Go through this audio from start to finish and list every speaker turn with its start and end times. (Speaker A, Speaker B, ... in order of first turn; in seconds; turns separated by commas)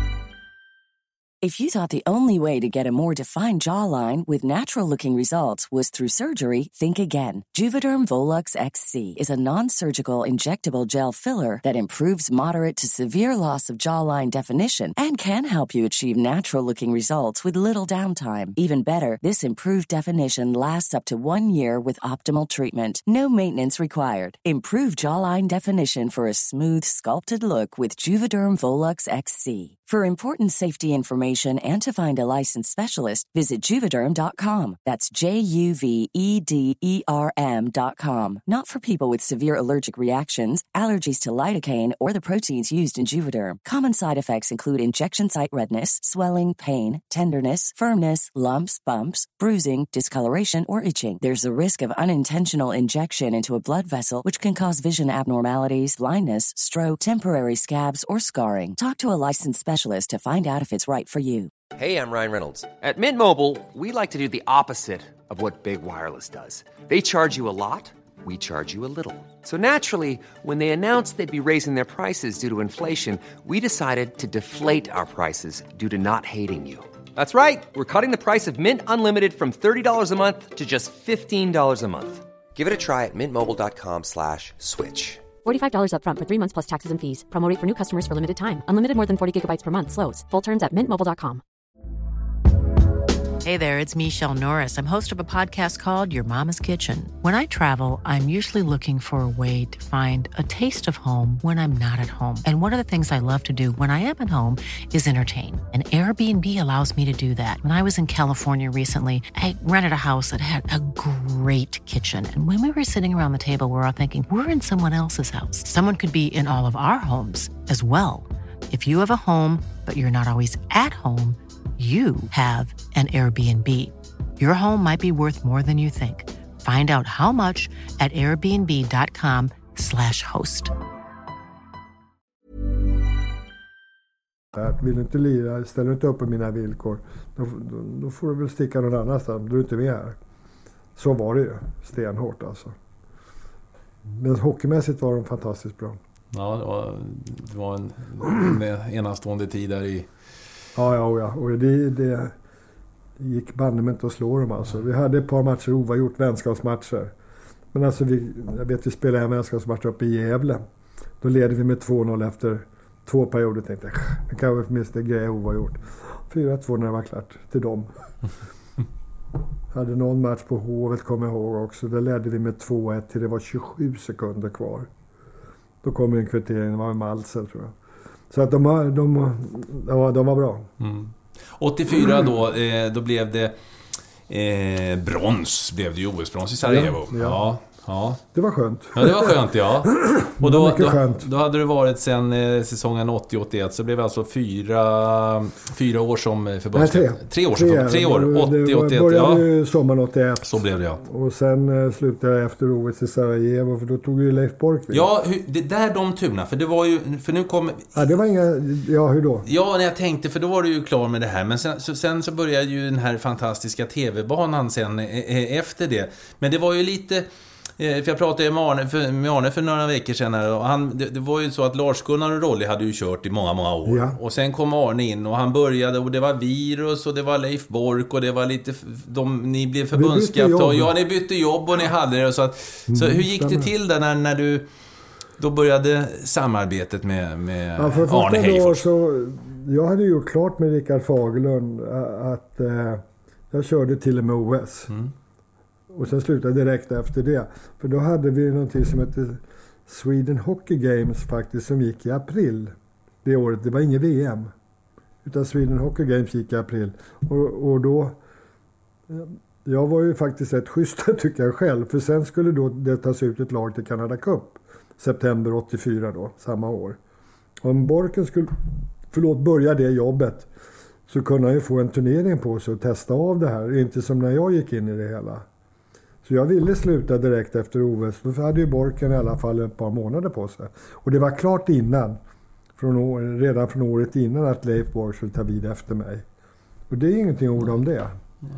Speaker A: 1.4-61.5, Speaker B: 61.7-85.3, Speaker C: 85.4-91.4, Speaker D: 93.4-130.7, Speaker E: 134.5-140.2, Speaker E: 140.9-142.7, Speaker E: 144.1-146.0, Speaker F: 146.3-150.1, Speaker E: 150.8-152.3, Speaker E: 153.2-157.1, Speaker E: 157.7-160.6, Speaker E: 161.2-167.9, Speaker E: 169.7-174.9, Speaker E: 175.8-177.7, Speaker E: 178.3-180.7, Speaker F: 180.8-183.6, Speaker F: 184.3-188.2, Speaker E: 186.6-187.5, Speaker E: 188.3-191.3, Speaker F: 188.9-199.4, Speaker E: 196.7-205.1, Speaker F: 200.4-201.0, Speaker F: 204.9-207.9, Speaker E: 207.9-209.4, Speaker F: 209.4-217.2, Speaker F: 217.8-234.7, Speaker E: 223.8-224.2, Speaker E: 229.9-230.9, Speaker E: 232.9-233.7, Speaker F: 235.4-238.8, Speaker E: 237.8-244.9, Speaker E: 245.9-252.7, Speaker E: 253.2-254.5, Speaker E: 255.2-258.2, Speaker E: 259.1-267.0, Speaker E: 267.6-268.5, Speaker E: 269.1-270.5, Speaker E: 271.1-275.4, Speaker E: 276.2-282.2, Speaker E: 282.8-286.2, Speaker E: 286.9-288.1